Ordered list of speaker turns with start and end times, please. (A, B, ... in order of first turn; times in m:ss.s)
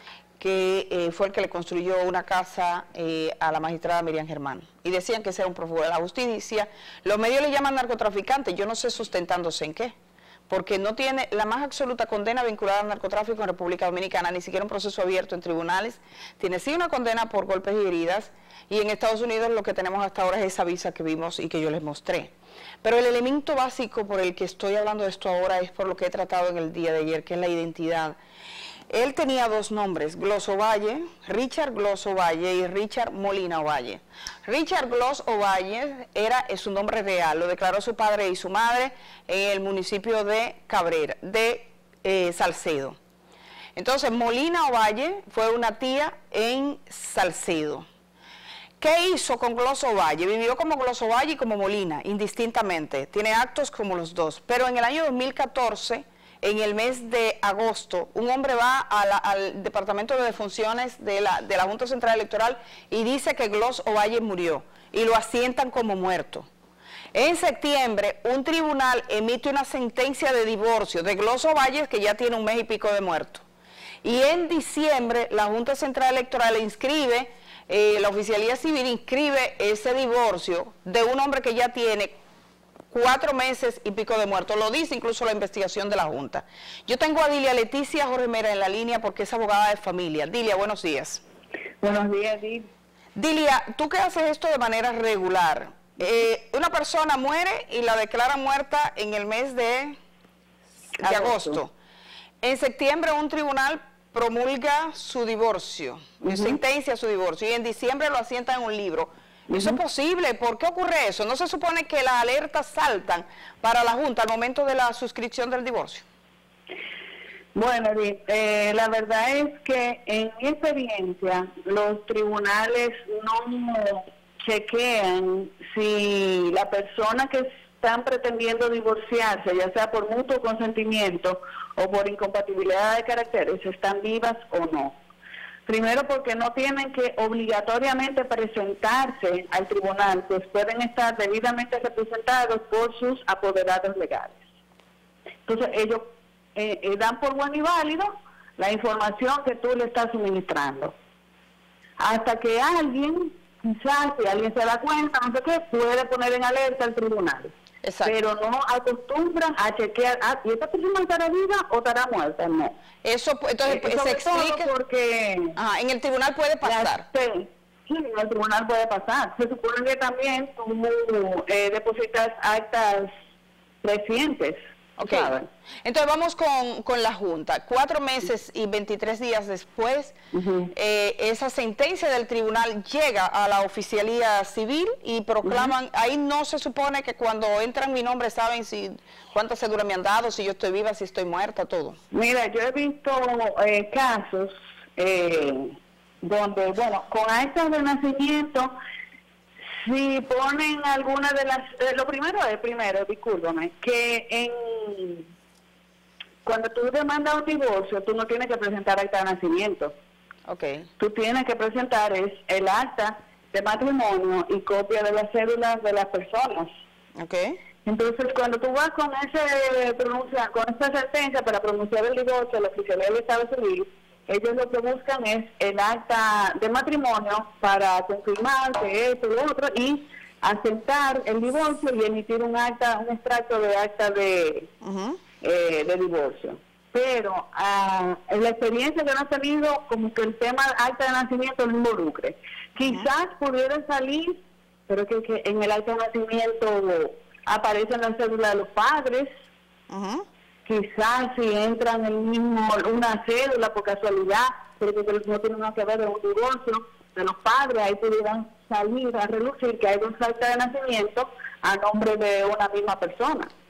0:00.4-0:09.9 A
0:10.5-0:22.3 A
0:22.8-0:28.2 A
0:28.9-0:43.0 A
0:43.8-0:47.9 A
0:48.8-1:06.5 A
1:07.1-1:13.4 A
1:14.0-1:22.1 A
1:22.9-1:31.2 A
1:31.8-1:32.7 B
1:33.2-1:40.0 A
1:41.0-1:41.6 B
1:41.0-1:41.7 A
1:42.4-1:56.0 A
1:46.2-1:46.6 B
1:49.5-1:49.8 B
1:57.5-2:15.0 B
2:15.6-2:24.4 B
2:25.4-2:30.9 B
2:32.0-2:37.5 B
2:37.8-2:38.1 A
2:38.0-2:42.8 B
2:43.0-2:44.7 A
2:43.6-2:45.6 B
2:45.6-2:47.0 A
2:46.6-2:53.1 B
2:53.8-2:55.5 B
2:55.0-3:00.1 A
3:00.3-3:00.7 B
3:00.7-3:12.0 A
3:05.4-3:05.7 B
3:12.1-3:18.7 B
3:19.8-3:25.3 B
3:26.4-3:29.9 B
3:30.5-3:30.9 A
3:31.0-3:36.7 B
3:37.2-3:37.6 A
3:37.8-3:54.7 B
3:54.8-3:55.2 A
3:55.4-4:09.3 B
4:09.9-4:10.2 A
4:10.6-4:23.5 B